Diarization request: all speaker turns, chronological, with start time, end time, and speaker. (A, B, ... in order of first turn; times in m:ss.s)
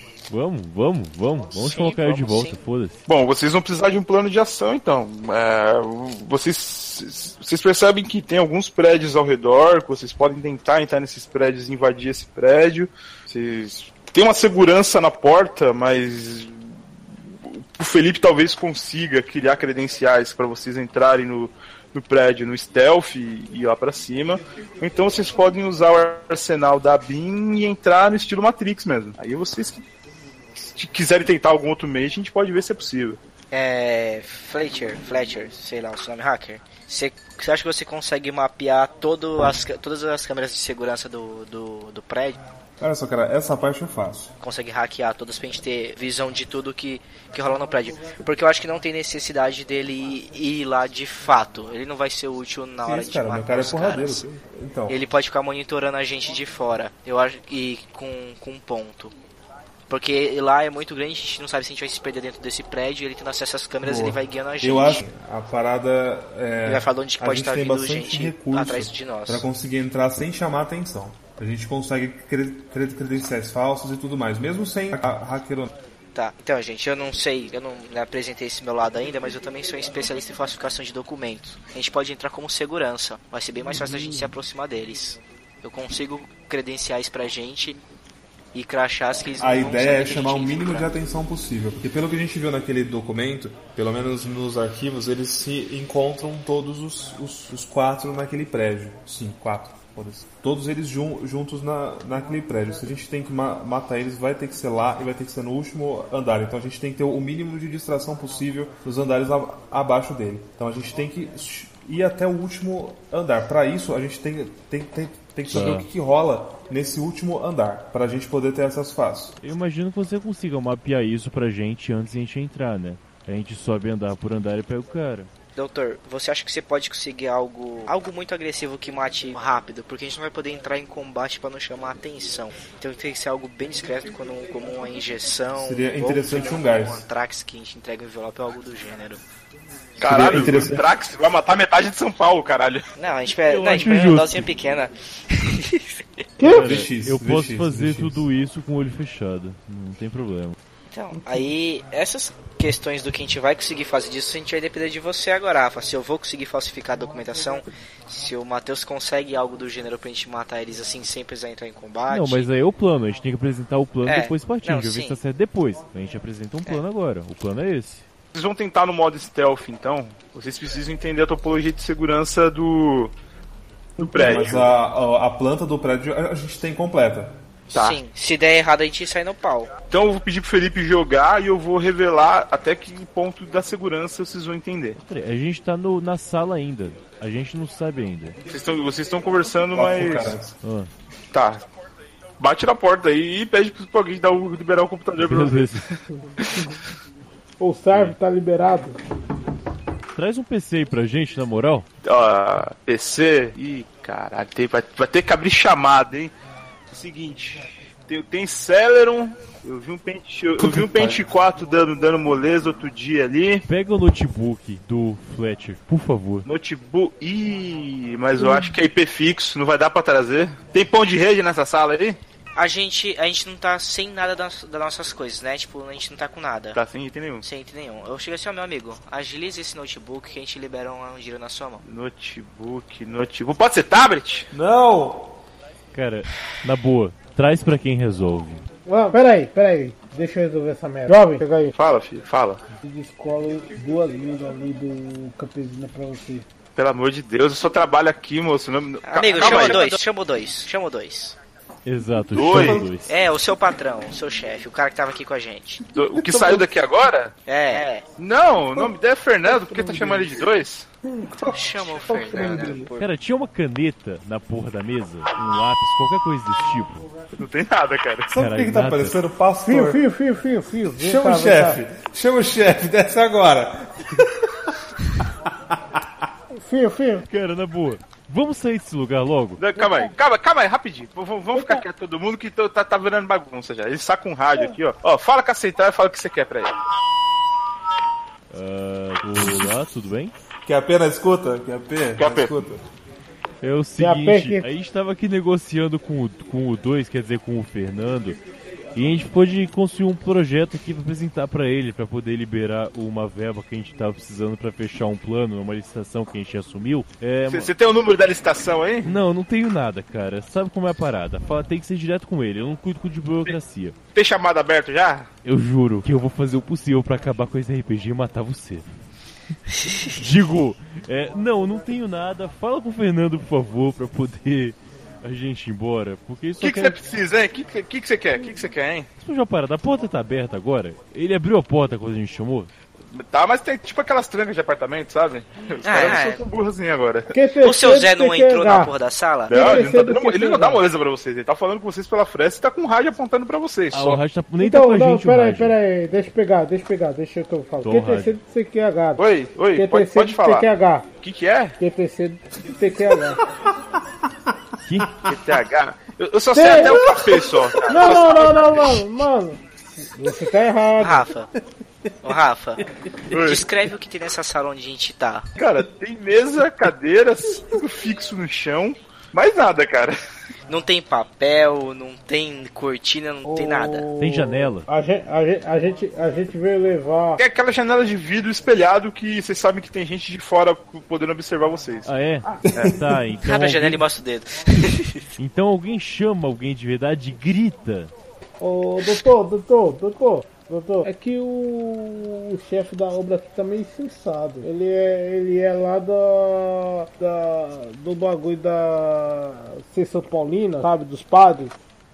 0:00.3-0:03.0 A
0:01.5-0:02.6 B
0:03.1-0:16.6 C
0:17.4-0:29.8 C
0:30.6-0:33.2 C
0:33.5-0:42.4 B
0:42.8-0:44.3 D
0:44.4-0:54.2 B
0:52.8-0:55.0 D
0:54.9-0:59.1 B
0:59.9-1:05.0 B
1:03.8-1:15.7 D
1:06.6-1:09.4 B
1:16.1-1:27.8 B
1:28.5-1:30.9 B
1:29.4-1:59.4 D
1:55.5-1:55.9 A
1:59.4-2:05.3 A
2:05.6-2:19.2 B
2:15.5-2:17.0 D
2:20.0-2:22.8 C
2:20.0-2:20.8 D
2:23.0-2:26.0 B
2:23.5-2:24.5 A
2:26.4-2:26.8 E
2:26.4-2:28.3 D
2:26.4-2:30.6 A
2:30.9-2:42.5 B
2:42.1-2:48.0 A
2:44.0-2:45.2 B
2:48.3-2:53.1 C
2:54.0-2:54.7 C
2:54.0-2:57.4 D
2:57.7-2:59.7 B
2:57.7-2:58.0 C
2:59.9-3:05.0 C
3:05.0-3:08.4 A
3:08.5-3:10.4 C
3:09.7-3:10.5 D
3:10.6-3:10.9 A
3:11.3-3:11.6 C
3:12.4-3:16.7 C
3:15.2-3:15.8 A
3:17.6-3:19.0 E
3:17.9-3:18.2 A
3:20.1-3:21.8 A
3:22.0-3:26.3 C
3:26.9-3:33.6 C
3:33.7-3:36.5 A
3:36.4-3:42.2 C
3:42.6-3:46.8 B
3:46.7-3:47.4 C
3:47.4-3:51.8 B
3:51.8-3:54.5 C
3:54.5-3:55.4 D
3:55.9-3:58.6 A
3:58.9-4:01.7 E
4:01.7-4:02.6 C
4:02.8-4:06.4 E
4:06.8-4:10.0 C
4:09.0-4:11.4 B
4:11.8-4:13.1 A
4:12.3-4:12.9 C
4:12.5-4:12.9 D
4:13.0-4:15.8 B
4:15.9-4:20.9 C
4:17.5-4:18.1 B
4:19.6-4:20.2 E
4:21.5-4:23.1 B
4:22.1-4:22.9 E
4:23.0-4:27.0 A
4:27.3-4:28.3 C
4:28.3-4:30.0 D
4:28.3-4:29.2 A
4:29.6-4:31.8 E
4:31.0-4:34.8 D
4:35.7-4:36.0 D
4:36.5-4:37.3 E
4:37.3-4:39.6 A
4:39.6-4:46.7 C
4:39.8-4:40.1 E
4:41.5-4:41.8 E
4:48.5-4:50.3 A
4:50.6-4:52.8 D
4:52.2-4:52.5 C
4:53.6-4:58.4 A
4:54.0-4:54.7 E
4:58.9-5:07.7 A
5:07.5-5:09.1 C
5:09.0-5:13.9 A
5:14.1-5:15.3 C
5:15.4-5:19.0 A
5:19.8-5:20.2 B
5:20.1-5:27.0 A
5:26.6-5:29.1 C
5:29.2-5:32.7 A
5:33.1-5:37.3 C
5:35.8-5:36.4 B
5:37.3-5:38.9 E
5:37.6-5:39.6 B
5:39.5-5:44.2 C
5:39.5-5:40.8 E
5:43.9-5:45.8 A
5:44.6-5:49.2 E
5:47.8-5:48.4 A
5:49.2-5:50.7 C
5:49.7-5:51.0 E
5:51.2-5:51.8 C
5:51.8-5:53.4 E
5:54.8-5:55.2 A
5:55.2-5:59.0 C
5:56.5-5:57.1 E
5:57.8-6:01.2 E
6:01.0-6:01.5 B
6:02.2-6:05.5 B
6:03.3-6:03.7 C
6:05.6-6:10.2 C
6:10.7-6:14.1 B
6:13.4-6:17.4 E
6:14.2-6:14.9 A
6:17.4-6:22.1 C
6:22.0-6:24.0 A
6:23.4-6:25.2 B
6:25.4-6:28.1 A
6:28.6-6:41.8 E